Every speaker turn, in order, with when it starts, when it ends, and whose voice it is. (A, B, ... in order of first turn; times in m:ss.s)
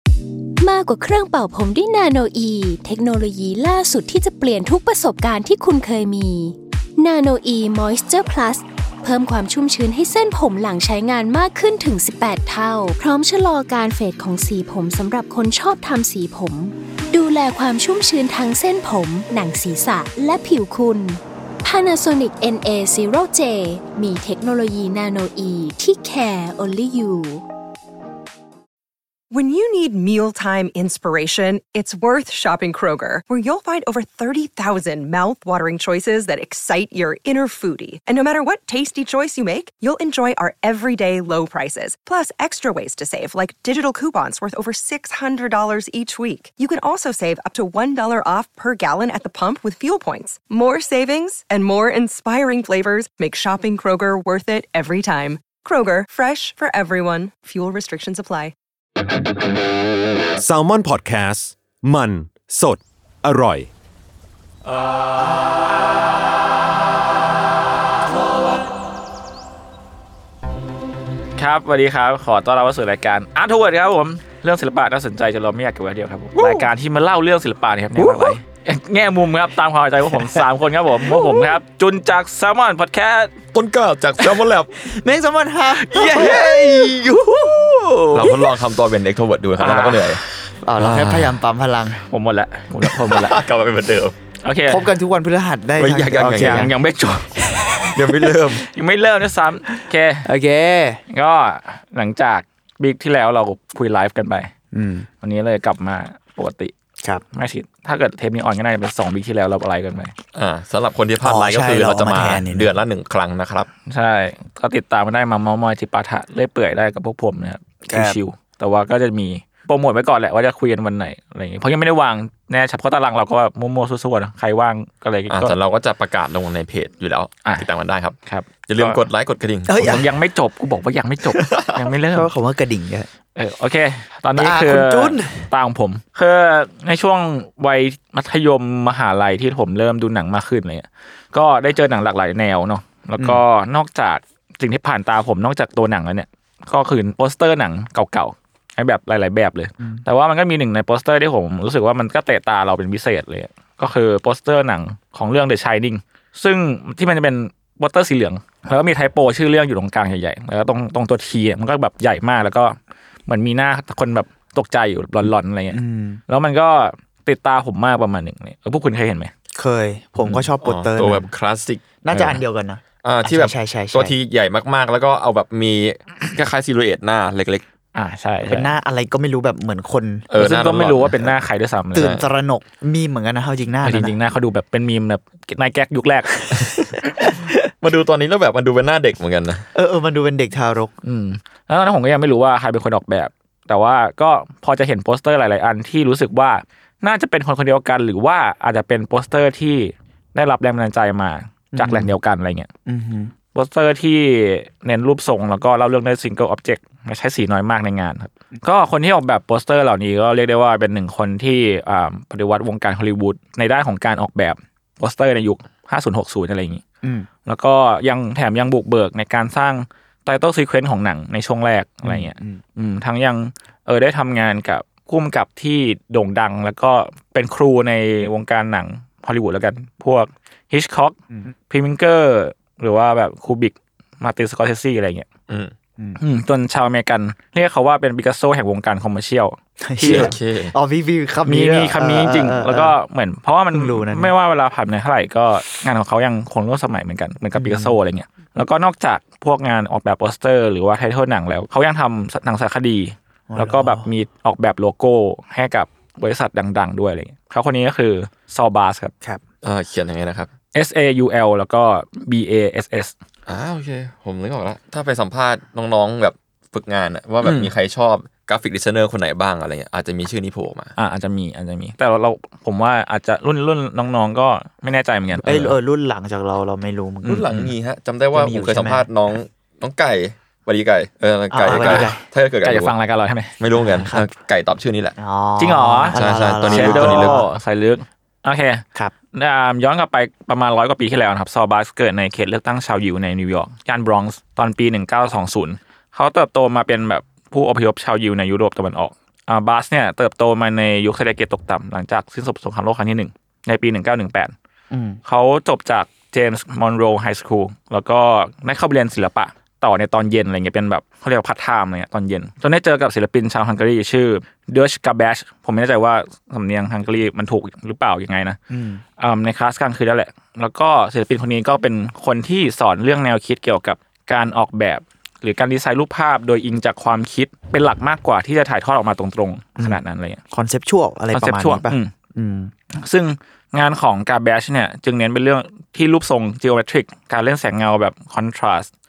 0:00.6-0:27.4 A
0:29.3-0:58.5 B
1:00.4-1:03.7 C
1:11.4-1:23.4 D
1:18.0-1:18.3 E
1:21.1-1:21.5 E
1:23.5-1:24.7 F
1:24.8-1:28.5 E
1:25.8-1:26.9 D
1:28.1-1:30.2 F
1:29.6-1:30.2 D
1:30.6-1:32.0 E
1:30.8-1:31.4 F
1:32.1-1:33.4 D
1:32.8-1:34.2 F
1:34.4-1:34.9 D
1:34.7-1:36.8 E
1:35.8-1:36.7 F
1:36.4-1:37.3 D
1:37.6-1:38.4 E
1:37.8-1:38.6 F
1:38.6-1:40.3 D
1:40.2-1:41.0 E
1:41.1-1:44.5 D
1:44.7-1:45.1 E
1:45.2-1:46.7 D
1:47.3-1:50.1 D
1:50.3-1:53.7 F
1:51.2-1:52.7 E
1:53.9-2:05.6 D
1:57.9-1:58.2 E
2:05.3-2:08.2 F
2:08.3-2:09.0 D
2:08.7-2:10.0 F
2:09.7-2:10.1 E
2:09.8-2:12.3 D
2:11.4-2:11.7 F
2:12.1-2:13.1 E
2:13.4-2:49.3 D
2:14.4-2:15.5 E
2:45.7-2:46.2 E
2:49.6-2:51.3 E
2:50.3-2:51.9 F
2:52.0-2:54.2 E
2:53.0-2:57.6 F
2:58.0-2:58.7 D
2:58.4-3:00.3 E
3:00.3-3:01.4 F
3:00.4-3:02.2 D
3:01.9-3:04.2 E
3:03.8-3:06.6 D
3:06.5-3:07.0 F
3:07.2-3:07.5 E
3:07.7-3:09.7 F
3:09.7-3:10.9 E
3:11.0-3:22.7 D
3:21.7-3:22.1 E
3:22.9-3:23.3 E
3:23.5-3:36.8 D
3:37.0-3:37.3 E
3:37.4-3:51.2 D
3:42.0-3:42.6 E
3:51.7-3:55.3 D
3:56.2-4:00.3 D
3:59.8-4:03.0 E
4:00.0-4:00.7 F
4:01.5-4:19.1 D
4:03.7-4:04.3 E
4:07.6-4:08.0 E
4:13.5-4:14.1 E
4:19.6-4:20.5 F
4:20.8-4:23.1 D
4:23.5-4:30.9 F
4:27.4-4:27.7 D
4:31.0-4:35.7 D
4:35.4-4:37.4 E
4:37.2-4:37.7 D
4:37.2-4:42.9 F
4:38.3-4:39.1 E
4:41.5-4:42.2 E
4:41.7-4:42.1 D
4:42.6-4:43.6 D
4:43.6-4:45.2 F
4:43.8-4:44.3 E
4:45.2-4:47.5 E
4:45.6-4:48.8 D
4:46.1-4:47.5 F
4:49.3-5:04.5 D
5:04.9-5:05.2 E
5:05.2-5:18.6 D
5:18.7-5:19.0 E
5:19.2-5:30.4 D
5:29.8-5:32.7 E
5:31.3-5:32.1 D
5:33.0-5:38.9 D